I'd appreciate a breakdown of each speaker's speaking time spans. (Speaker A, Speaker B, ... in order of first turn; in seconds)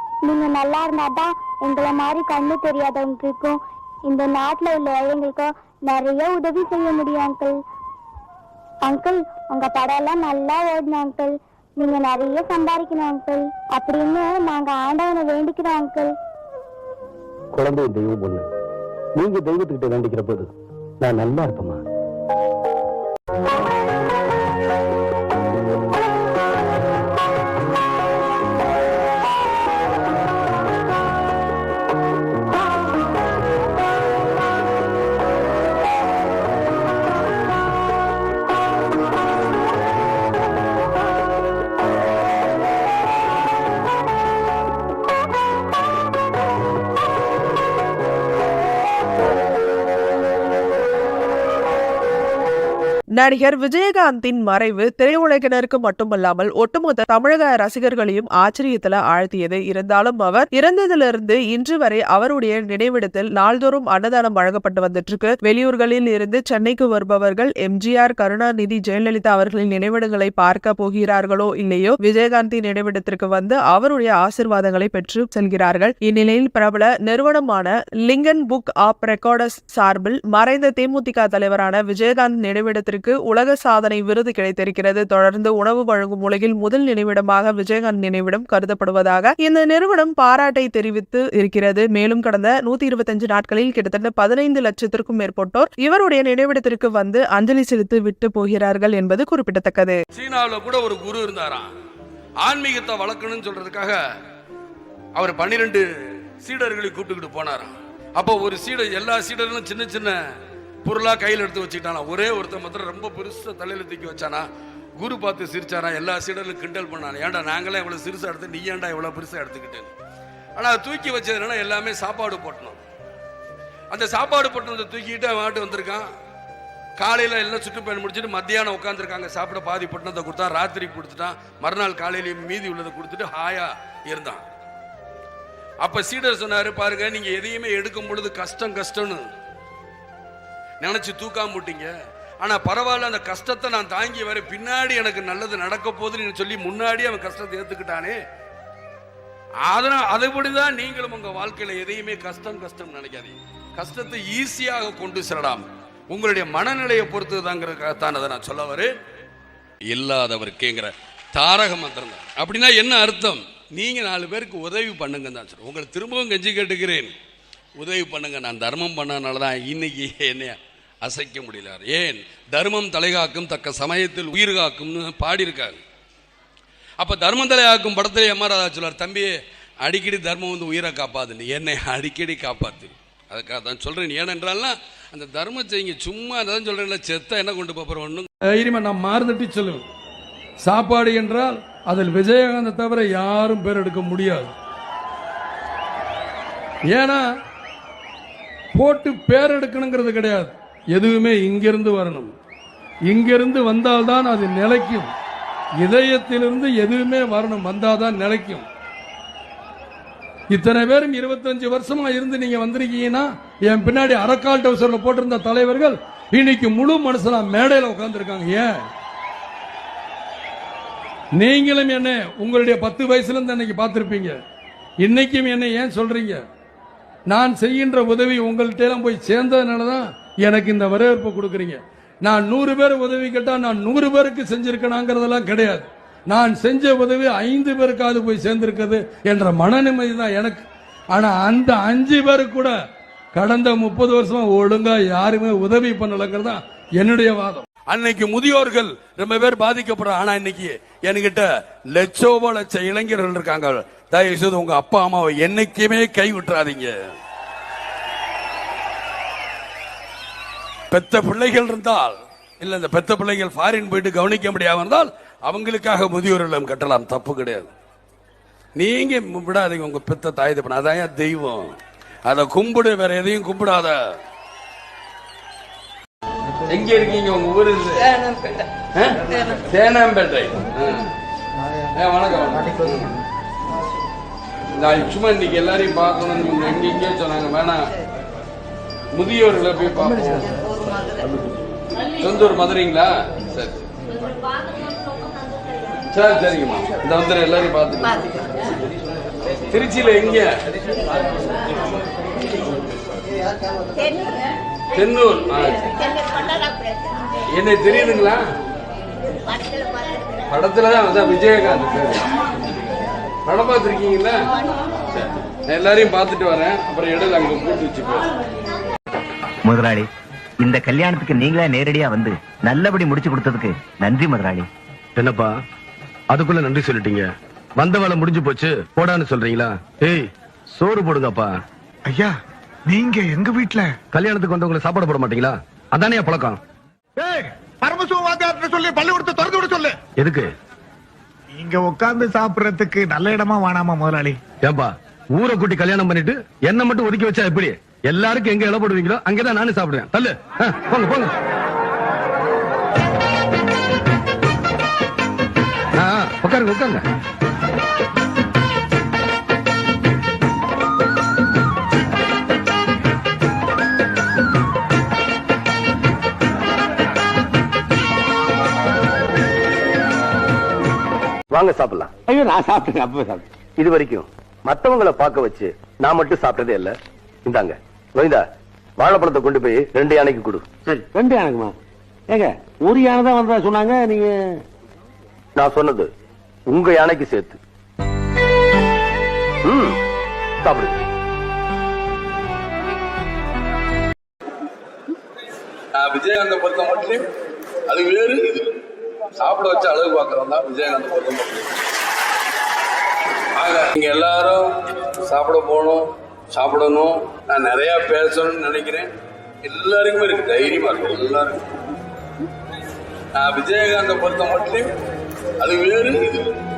Speaker A: 0.3-7.6, 8.8-16.1
Speaker B: 53.2-100.0
Speaker C: 100.1-101.7, 102.4-104.0, 105.2-105.8, 106.4-110.2, 110.8-114.5, 115.0-119.9, 120.6-122.8, 123.9-126.1, 127.0-134.4, 135.8-139.3, 140.8-141.9, 142.4-148.2, 149.7-158.9, 159.9-167.1, 167.8-175.8, 177.0-188.3, 247.8-256.9, 260.9-267.7, 268.8-271.7, 272.3-274.0, 276.7-278.1, 278.9-281.1, 281.9-283.1, 284.8-287.8, 289.1-290.5, 292.2-293.9, 296.1-298.4, 299.7-300.5, 304.9-305.9, 307.5-308.4, 310.5-312.3, 313.4-314.5, 315.1-318.3, 395.9-397.2, 397.9-398.7, 399.4-401.8, 403.6-409.1, 409.6-411.7, 413.3-414.9, 415.6-416.5
Speaker D: 188.5-189.8, 190.6-194.5, 196.9-197.2, 198.7-202.3, 203.1-205.1, 205.8-208.7, 210.5-218.7, 221.4-224.4, 225.0-226.4, 227.3-242.7, 243.3-247.7
Speaker E: 319.7-320.1, 320.6-324.7
Speaker F: 325.2-325.6, 326.3-331.5, 334.1-336.6, 340.2-340.5, 344.6-351.3, 356.0-357.0, 371.5-372.1, 373.8-376.9, 377.5-378.4, 379.0-380.6, 385.6-386.1, 386.7-387.6, 389.6-390.0, 390.6-391.0
Speaker G: 332.9-333.9, 337.2-339.9, 341.5-344.4
Speaker H: 372.3-373.4, 380.9-381.7, 382.3-384.3